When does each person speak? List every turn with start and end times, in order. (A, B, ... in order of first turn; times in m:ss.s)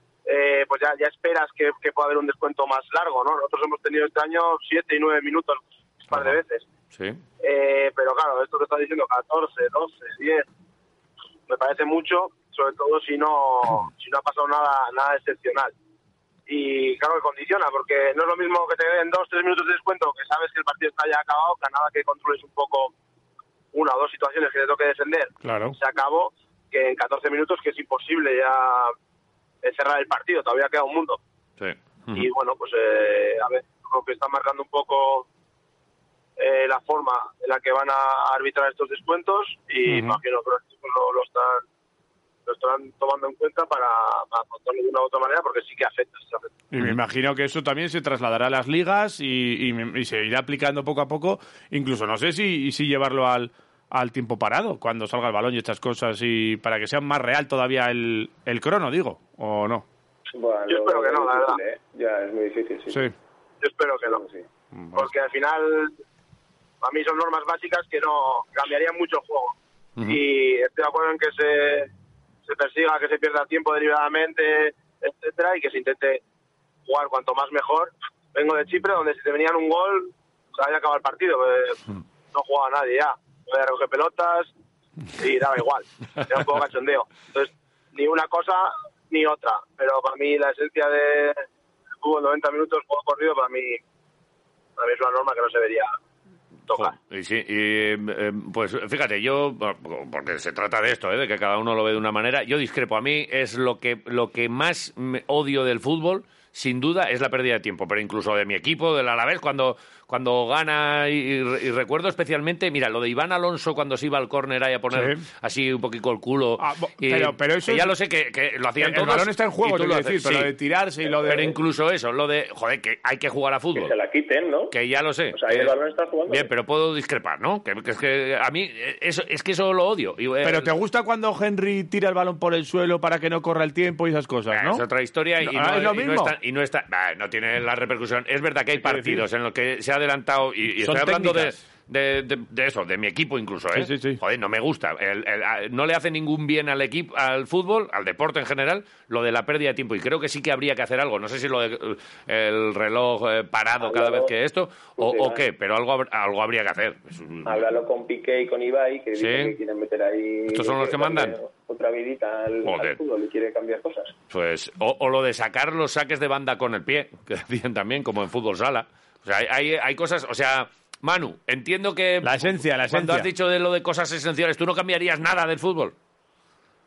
0:00.2-0:06.6 A
0:06.1-0:06.4 B
0:06.9-0:07.2 B
0:07.4-0:10.5 A
0:11.5-0:15.7 A
0:16.5-0:22.9 A
0:23.7-0:28.9 A
0:25.4-0:25.8 C
0:29.6-0:31.2 A
0:31.6-0:32.3 B
0:32.1-0:35.2 A
0:36.4-0:41.6 A
0:39.8-0:40.2 C
0:42.4-0:46.5 A
0:46.7-0:59.8 C
1:00.3-1:03.0 D
1:00.7-1:01.6 A
1:03.6-1:04.2 A
1:04.1-1:04.4 D
1:04.7-1:05.1 C
1:04.9-1:05.9 A
1:06.8-1:11.9 A
1:12.4-1:16.2 A
1:16.8-1:21.8 A
1:22.3-1:24.5 A
1:25.2-1:31.4 A
1:32.0-1:33.8 A
1:34.8-1:35.9 A
1:36.7-1:36.9 A
1:36.7-2:00.5 B
1:54.9-1:55.2 C
1:56.6-1:57.9 C
1:58.8-2:01.5 C
2:01.0-2:01.5 D
2:01.2-2:03.9 B
2:03.7-2:04.8 D
2:04.7-2:05.7 B
2:05.3-2:06.5 D
2:06.3-2:10.7 B
2:10.4-2:14.8 C
2:14.5-2:37.6 B
2:15.4-2:16.3 C
2:18.8-2:19.2 C
2:20.8-2:21.6 C
2:23.7-2:24.2 C
2:33.8-2:34.3 D
2:35.0-2:35.4 D
2:37.4-2:44.2 D
2:39.2-2:39.6 B
2:40.5-2:41.4 B
2:42.6-2:43.0 B
2:44.3-2:55.9 B
2:52.2-2:53.3 C